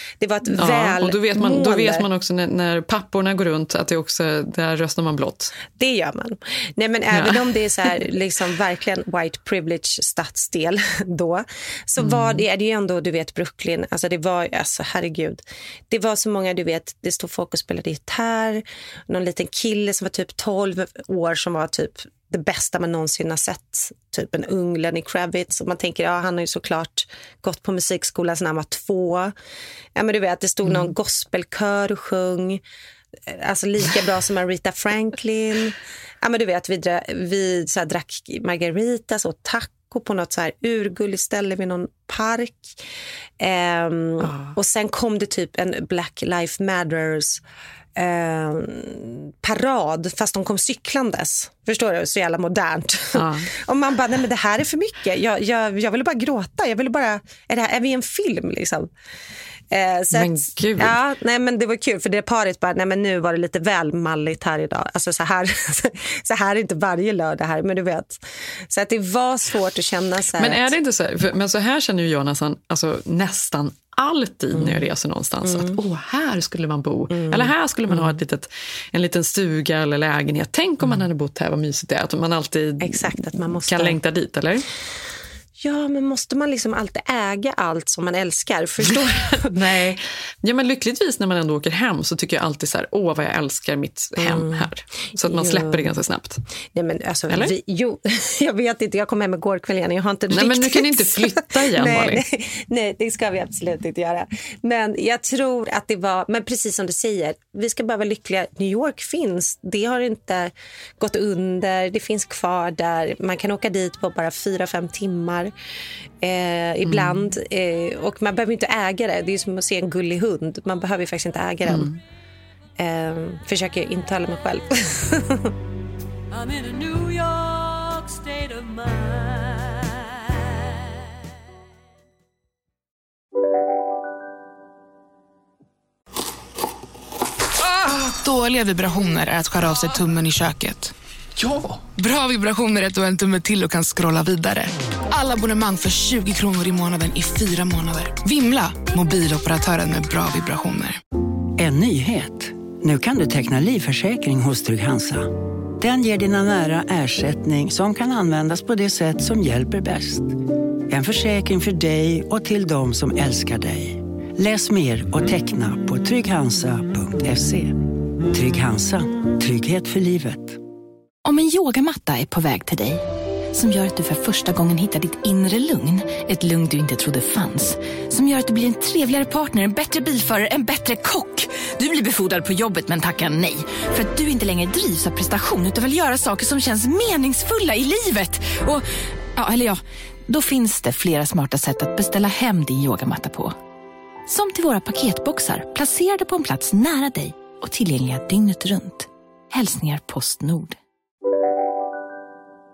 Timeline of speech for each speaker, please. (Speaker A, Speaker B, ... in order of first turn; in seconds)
Speaker A: 0.2-2.1, 5.8-29.3, 30.0-32.6, 33.3-42.8, 43.4-47.4, 48.0-58.9, 59.7-70.7, 74.5-74.8, 75.5-75.8, 77.1-78.1, 82.8-84.0, 85.6-89.5, 94.2-94.7, 95.2-95.9, 96.7-115.5, 116.2-121.9, 122.8-125.5
Speaker B: 0.5-5.5, 7.1-7.5, 12.0-12.4, 44.2-44.5, 53.1-53.5, 60.1-61.0, 70.4-84.7, 89.5-96.4, 100.3-102.2, 116.9-117.3, 121.7-122.0
Speaker C: 126.3-131.0
Speaker D: 138.1-140.9, 142.0-151.0
Speaker E: 151.6-160.3, 160.9-167.8, 168.3-170.6
Speaker F: 171.2-173.0, 173.5-193.6, 194.3-200.8